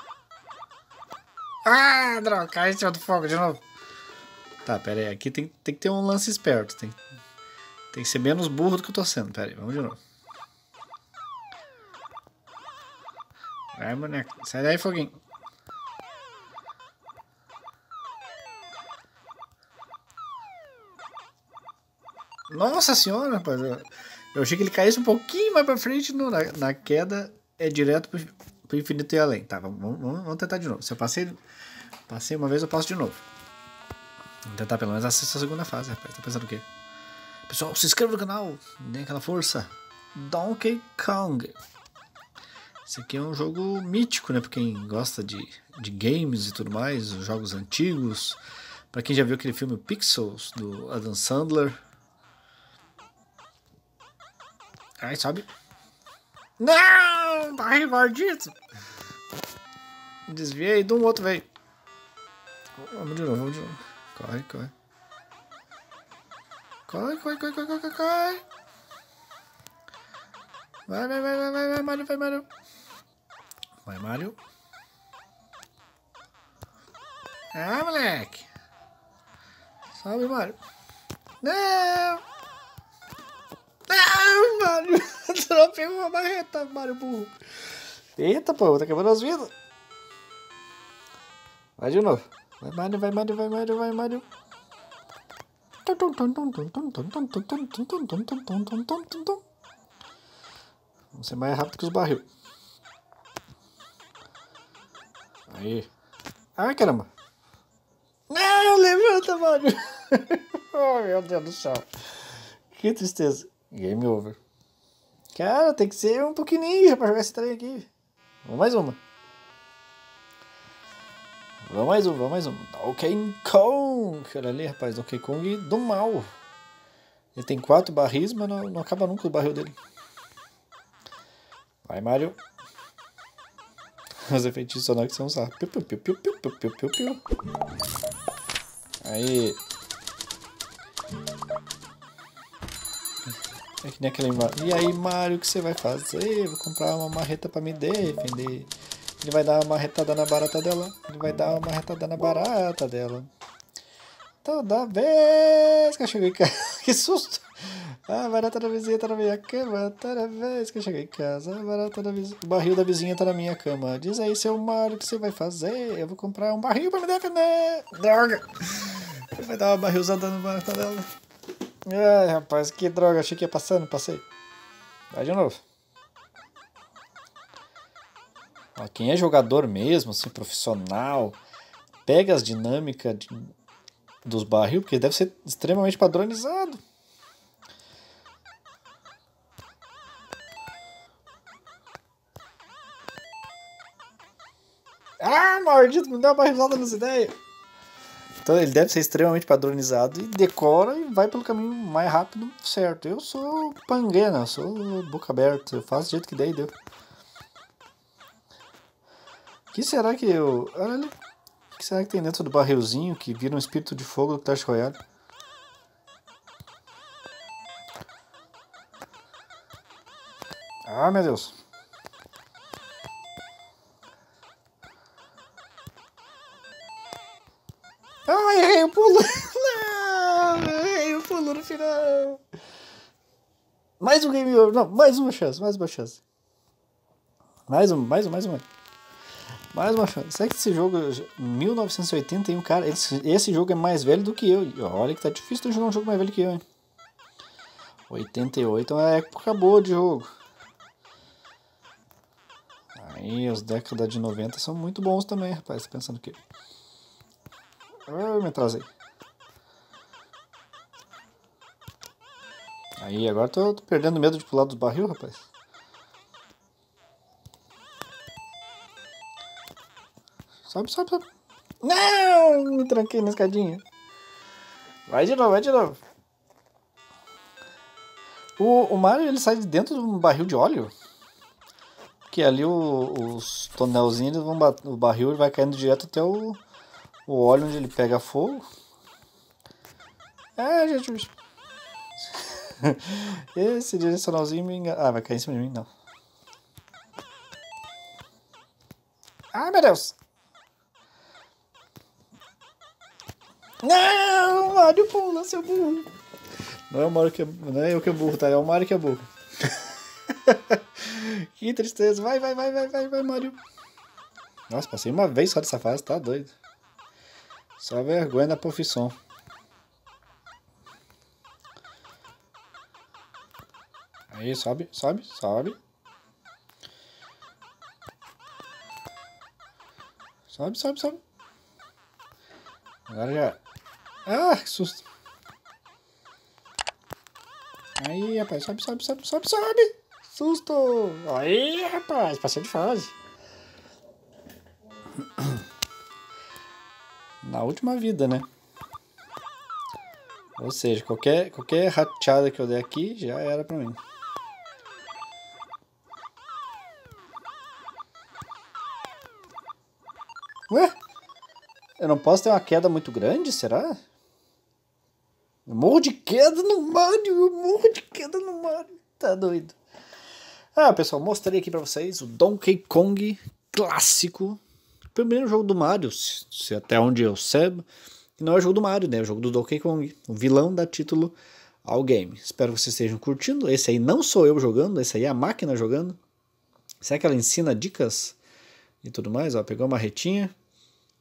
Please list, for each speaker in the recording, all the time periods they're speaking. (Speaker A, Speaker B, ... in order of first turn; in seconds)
Speaker A: 1.6-3.6, 4.7-7.0, 7.9-10.0, 13.7-15.2, 22.5-31.4, 32.1-33.2, 34.5-36.7, 37.5-41.6, 42.9-48.4, 48.9-51.8, 55.0-55.5, 56.6-58.6, 60.3-61.5, 62.8-64.7, 66.9-68.4, 70.9-72.5, 73.8-74.4, 77.5-78.5, 80.0-80.6, 81.4-82.2, 83.9-87.3, 88.2-89.5, 91.8-94.3, 95.8-99.4, 101.1-102.3, 105.5-105.9, 106.6-107.1, 108.3-114.4, 115.3-117.9, 118.4-119.0, 121.7-126.3, 127.3-129.8, 131.8-132.4, 134.3-137.2, 139.0-139.6, 143.8-153.3, 154.4-171.1, 171.8-174.3, 175.1-175.6, 178.8-181.4, 182.1-183.5, 184.2-186.8, 195.2-197.3, 198.4-206.7, 209.7-211.1, 211.7-215.0, 220.9-221.5, 228.3-232.4, 234.0-236.2, 237.7-238.6, 239.7-246.6, 248.1-250.3, 252.9-256.4, 258.1-258.9, 263.0-265.5, 270.7-271.3, 271.8-273.8, 275.1-276.0, 278.6-280.9, 282.3-286.6, 287.3-288.7, 290.6-291.3, 292.3-295.9, 299.5-300.2, 303.8-306.1, 306.9-309.9, 310.4-313.6, 314.7-316.5, 317.8-319.1, 324.3-325.8, 330.5-331.2, 333.1-333.6, 334.3-335.0, 338.0-343.1, 345.2-345.6, 347.4-348.5, 350.6-354.0, 360.7-360.9, 362.0-364.0, 365.7-369.8, 370.8-374.6, 375.1-386.2, 387.0-388.4, 389.0-390.5